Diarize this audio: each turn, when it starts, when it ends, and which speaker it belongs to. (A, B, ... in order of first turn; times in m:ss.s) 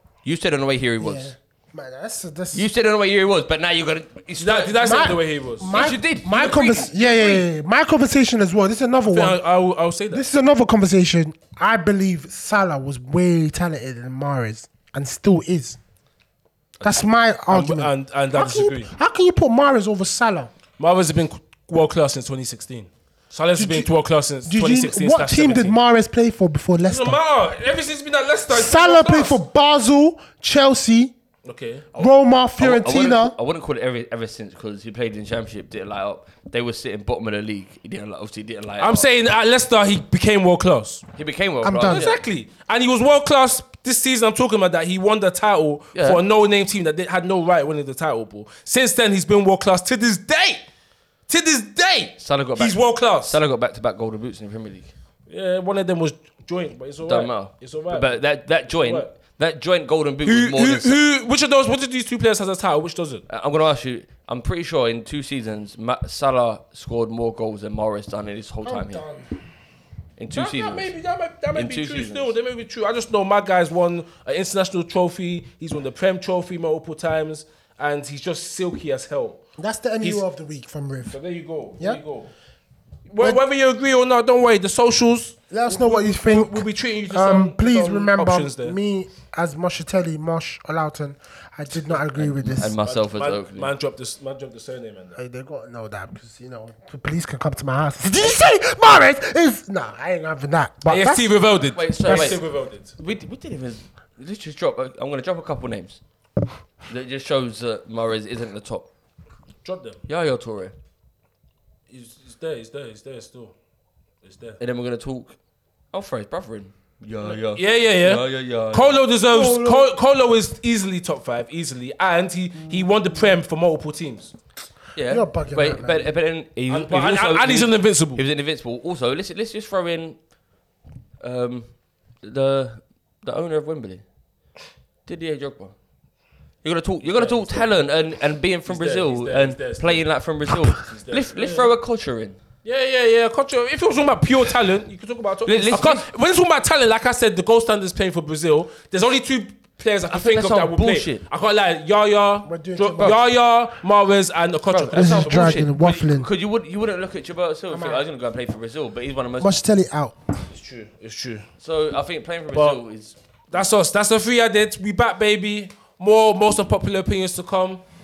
0:00.2-0:01.3 A
0:01.0-0:02.7 B
0:02.5-0:05.0 A
0:04.4-0:05.8 C
0:04.8-0:09.4 B
0:05.7-0:07.4 A
0:09.0-0:10.2 C
0:10.1-0:15.8 B
0:16.8-0:20.5 B
0:17.5-0:18.9 C
0:20.8-0:25.8 C
0:23.6-0:23.9 B
0:24.4-0:27.2 B
0:26.8-0:29.4 C
0:28.5-0:31.1 B
0:31.4-0:31.9 C
0:31.9-0:39.0 A
0:32.0-0:33.4 B
0:38.8-0:41.0 C
0:41.2-0:42.2 A
0:41.6-0:42.1 B
0:41.9-0:50.6 C
0:45.9-0:46.2 A
0:51.3-0:53.4 C
0:52.2-0:54.9 A
0:55.3-0:59.1 C
0:57.0-1:01.0 A
1:00.2-1:03.2 C
1:03.3-1:09.0 A
1:08.6-1:09.3 B
1:10.2-1:10.9 A
1:10.3-1:19.4 C
1:11.5-1:12.3 A
1:19.6-1:21.2 B
1:21.1-1:22.3 C
1:23.1-1:28.8 C
1:25.5-1:32.8 B
1:32.1-1:33.7 A
1:32.8-1:35.2 C
1:35.2-1:41.3 B
1:40.9-1:42.9 C
1:41.8-1:42.4 A
1:42.0-1:42.4 B
1:43.0-1:46.0 A
1:46.9-1:48.9 A
1:49.6-1:50.0 C
1:50.1-1:50.7 A
1:51.9-1:53.5 C
1:54.2-1:54.6 C
1:54.6-1:55.4 A
1:55.9-1:59.0 A
1:57.2-2:04.3 C
1:59.3-1:59.9 B
2:04.9-2:10.2 A
2:05.1-2:06.1 B
2:06.7-2:08.2 C
2:11.2-2:11.7 A
2:12.2-2:14.0 A
2:15.0-2:15.7 A
2:16.6-2:22.4 A
2:17.0-2:17.7 C
2:18.6-2:20.0 C
2:20.8-2:21.7 C
2:22.6-2:35.6 C
2:25.5-2:26.0 A
2:30.1-2:31.2 A
2:32.4-2:33.2 B
2:34.7-2:39.5 A
2:34.9-2:36.3 B
2:37.7-2:38.0 B
2:39.4-2:40.2 B
2:40.5-2:41.5 C
2:41.6-2:43.2 A
2:42.5-2:42.8 C
2:43.5-2:47.8 C